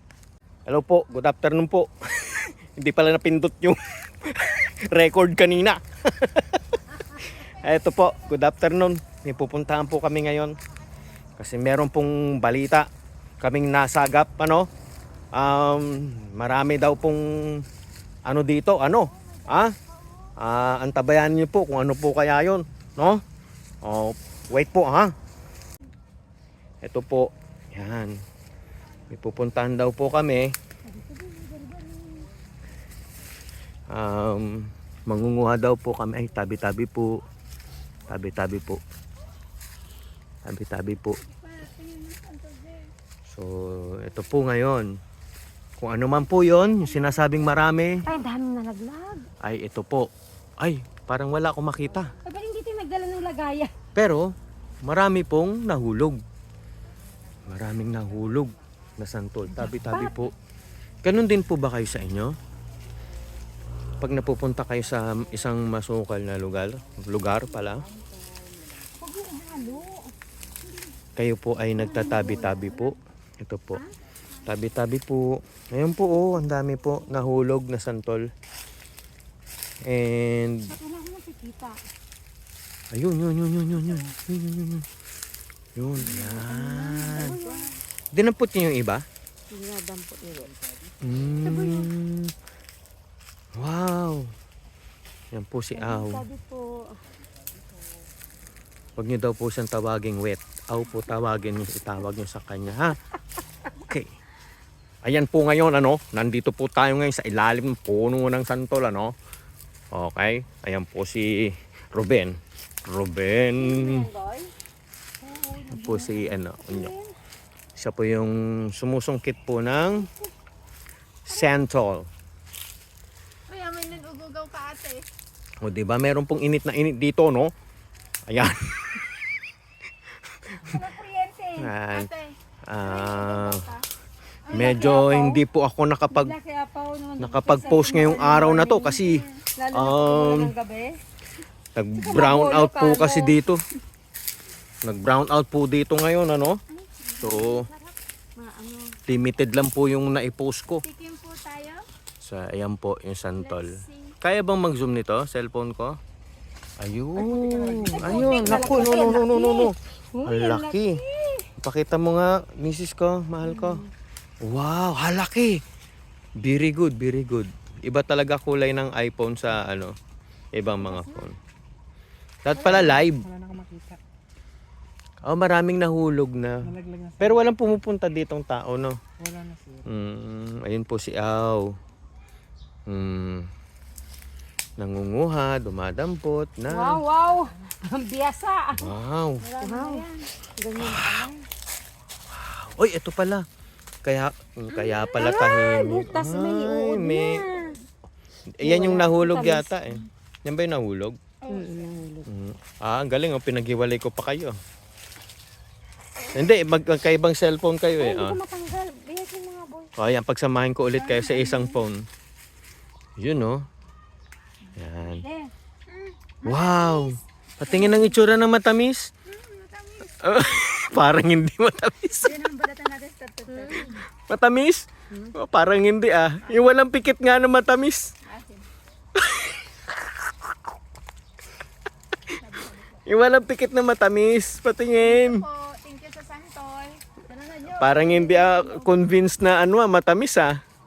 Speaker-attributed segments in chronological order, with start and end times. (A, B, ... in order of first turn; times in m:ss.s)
0:00.7-0:10.6 A
0:11.4-0:12.9 A
0:13.4-0:14.7 A
0:15.3-0:17.6 A
0:18.2-0:19.8 A
0:20.4-0:23.2 A
0:23.8-0:25.1 A
0:26.8-0:28.2 A
0:29.1-0:30.5 A
0:30.9-0:32.3 B
0:33.9-0:37.2 A
0:38.1-0:38.8 A
0:40.4-0:41.2 A
0:41.2-0:42.9 C
0:43.3-0:44.9 A
0:45.8-0:48.0 A
0:46.5-0:47.1 C
0:48.1-0:49.3 B
0:49.4-0:50.1 A
0:50.6-0:52.1 A
0:52.2-0:53.7 B
0:54.0-0:54.3 A
0:54.8-0:56.2 A
0:57.5-1:00.3 A
0:59.6-1:00.3 B
1:01.0-1:02.3 A
1:04.0-1:07.9 A
1:09.0-1:10.0 B
1:11.2-1:13.8 A
1:11.9-1:12.8 B
1:14.4-1:18.3 A
1:19.8-1:20.8 A
1:20.6-1:21.8 B
1:22.9-1:24.9 A
1:25.8-1:27.4 A
1:26.0-1:27.8 B
1:28.1-1:29.0 A
1:29.5-1:30.5 B
1:31.0-1:32.3 A
1:31.4-1:31.9 B
1:33.6-1:34.3 A
1:35.3-1:36.2 A
1:35.8-1:37.0 B
1:39.0-1:43.0 A
1:43.8-1:44.1 A
1:45.0-1:49.1 A
1:49.9-1:54.1 A
1:53.6-1:54.5 B
1:55.2-1:57.1 B
1:55.7-1:56.9 A
1:57.8-2:00.1 A
1:59.8-2:00.3 B
2:01.3-2:02.1 A
2:03.5-2:05.0 C
2:05.6-2:07.5 A
2:08.3-2:09.2 A
2:10.6-2:11.7 B
2:11.6-2:12.1 A
2:11.9-2:13.8 C
2:12.7-2:13.6 A
2:14.5-2:14.8 C
2:14.5-2:16.4 A
2:14.5-2:15.4 B
2:16.1-2:19.0 B
2:17.2-2:20.5 A
2:19.0-2:19.3 C
2:19.6-2:21.0 B
2:21.8-2:23.6 A
2:22.0-2:23.4 B
2:24.8-2:26.6 A
2:26.7-2:27.5 C
2:27.2-2:27.7 A
2:27.2-2:27.8 B
2:28.4-2:28.9 B
2:29.1-2:30.8 A
2:30.8-2:31.8 C
2:32.2-2:36.0 A
2:33.4-2:34.2 C
2:36.8-2:41.0 A
2:37.2-2:39.2 D
2:37.7-2:41.5 B
2:41.6-2:43.8 A
2:43.4-2:43.9 B
2:44.4-2:45.6 A
2:46.4-2:49.9 A
2:50.5-2:51.4 A
2:50.8-2:51.2 B
2:52.4-2:53.2 A
2:52.6-2:53.0 B
2:52.7-2:54.0 D
2:55.3-2:59.0 A
2:56.6-2:57.4 D
2:59.2-2:59.9 D
2:59.9-3:01.7 A
3:02.9-3:03.5 A
3:04.8-3:07.0 A
3:06.7-3:08.9 B
3:08.7-3:09.4 A
3:09.4-3:10.3 C
3:09.6-3:11.4 B
3:10.8-3:11.1 A
3:12.3-3:13.4 A
3:14.0-3:17.4 A
3:14.7-3:17.8 B
3:18.6-3:21.2 A
3:18.6-3:20.0 B
3:21.4-3:21.9 C
3:21.5-3:22.3 B
3:22.3-3:24.6 A
3:26.3-3:28.4 A
3:28.0-3:29.9 B
3:30.0-3:32.1 A
3:31.0-3:31.8 C
3:33.2-3:33.7 A
3:34.8-3:35.2 A
3:35.2-3:35.5 B
3:35.9-3:37.2 C
3:36.4-3:39.1 A
3:37.7-3:38.0 C
3:39.3-3:40.7 C
3:40.2-3:42.4 A
3:42.2-3:44.0 C
3:43.5-3:43.9 B
3:43.9-3:48.1 A
3:48.2-3:48.7 C
3:49.2-3:49.7 A
3:52.3-3:53.0 C
3:53.1-3:55.4 A
3:55.0-3:58.9 C
3:57.8-4:00.6 A